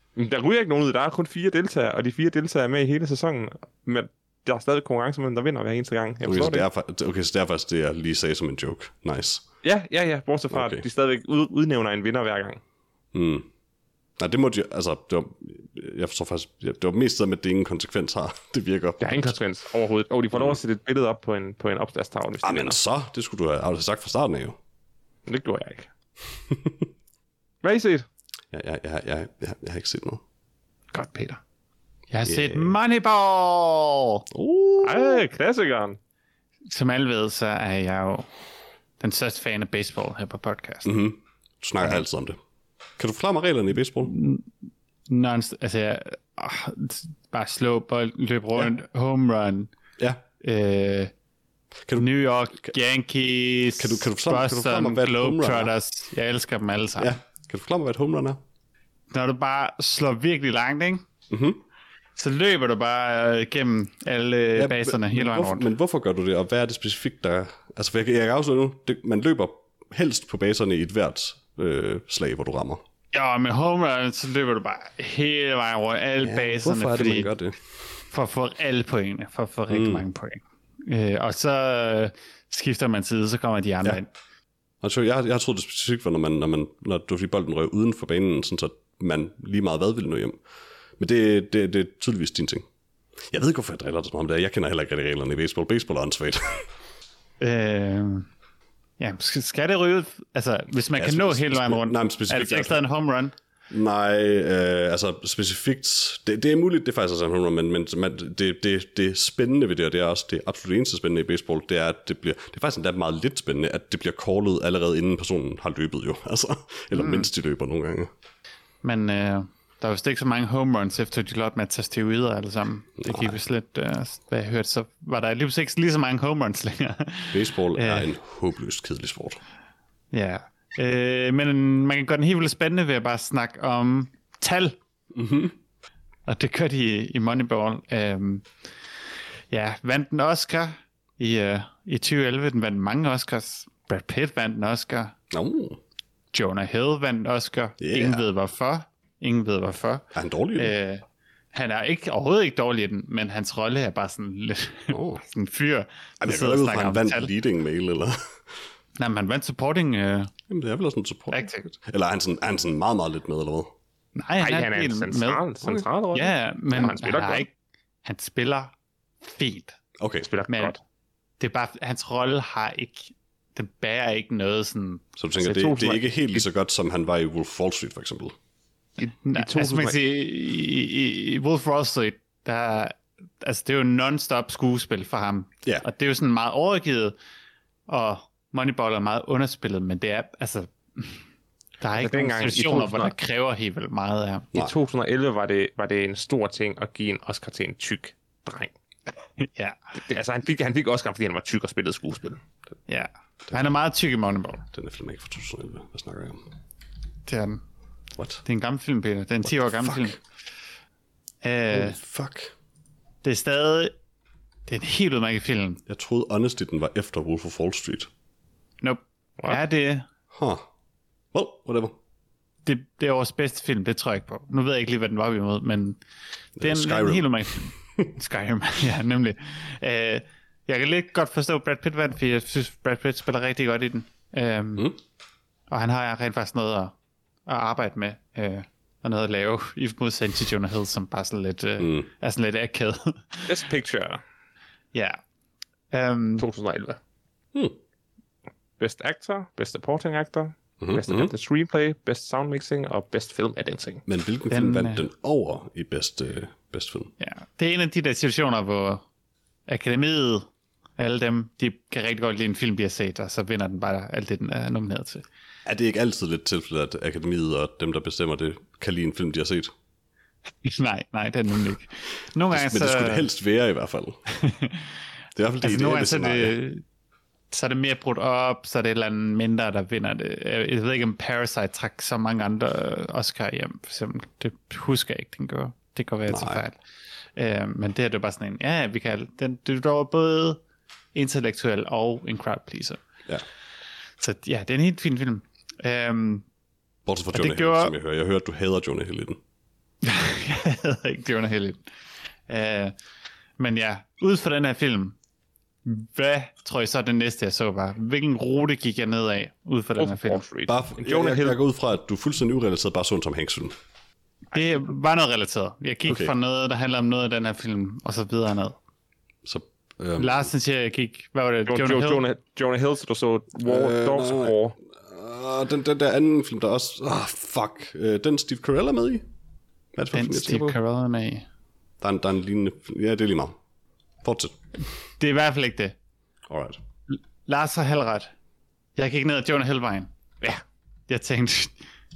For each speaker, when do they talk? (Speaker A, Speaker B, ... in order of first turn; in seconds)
Speaker A: 0.1-6.7, 9.6-12.6, 19.0-22.8, 25.3-25.9, 27.6-28.1, 30.9-31.4, 34.8-36.0, 164.4-167.4, 170.2-170.8, 175.4-176.4, 179.0-179.9, 191.9-193.1, 194.5-198.7, 200.0-202.4, 243.5-244.2, 246.4-247.0, 248.8-254.0, 310.0-311.6, 321.7-324.8
Speaker B: 6.2-9.4, 10.5-10.8, 13.1-13.5, 14.2-19.4, 20.3-20.6, 22.4-24.6, 26.5-26.8, 28.5-30.2, 32.2-32.8, 34.3-35.2, 40.8-42.4, 43.0-44.1, 53.8-55.7, 57.0-58.4, 61.3-61.6, 64.5-72.8, 76.2-77.6, 79.7-80.0, 84.8-90.4, 91.0-92.6, 93.3-96.7, 100.9-102.8, 103.7-118.1, 123.0-123.4, 127.3-129.4, 135.1-135.5, 145.3-145.8, 147.8-148.2, 150.1-150.7, 154.9-155.2, 156.2-158.2, 160.5-163.7, 170.0-170.3, 175.2-178.3, 204.7-206.4, 208.2-208.4, 209.4-210.2, 211.7-212.5, 215.9-218.1, 220.3-220.6, 221.3-221.9, 226.6-227.3, 241.8-242.1, 250.8-251.3, 254.1-257.1, 265.6-269.7, 272.5-274.2, 275.4-276.5, 286.3-286.6, 297.1-299.4, 310.7-313.7, 316.1-316.3, 319.4-320.5, 323.6-329.2, 329.9-330.8, 332.0-333.6, 334.2-334.6, 336.5-336.8
Speaker C: 32.1-34.2, 36.7-38.3, 39.0-41.0, 44.0-44.5, 45.1-49.7, 50.4-51.1, 52.0-57.2, 59.1-61.0, 62.2-65.7, 73.1-77.3, 78.1-84.1, 97.4-98.3, 99.0-103.3, 116.9-117.3, 118.8-128.1, 130.1-134.8, 136.3-138.4, 139.5-145.1, 146.3-150.0, 150.6-157.3, 159.0-160.3, 161.3-161.7, 164.2-165.4, 166.1-167.5, 168.0-168.7, 169.2-169.8, 170.5-170.7, 171.4-175.0, 179.2-187.1, 187.9-191.2, 191.8-194.5, 199.4-199.8, 202.9-204.6, 207.2-207.6, 208.4-210.2, 211.4-212.0, 213.2-213.9, 214.7-215.8, 218.8-220.1, 222.7-226.0, 226.6-234.9, 235.7-236.9, 237.4-243.6, 244.9-245.2, 245.9-246.4, 254.5-255.0, 257.2-259.0, 259.7-265.2, 270.6-273.3, 274.3-275.0, 275.6-276.8, 277.5-286.8, 287.4-290.6, 291.1-293.0, 294.2-296.4, 297.3-297.9, 300.0-301.8, 302.5-302.9, 303.6-305.1, 305.8-310.4, 314.5-318.8, 320.2-322.2, 330.1-331.4, 335.2-335.9, 337.1-338.3, 338.9-340.1, 341.1-341.8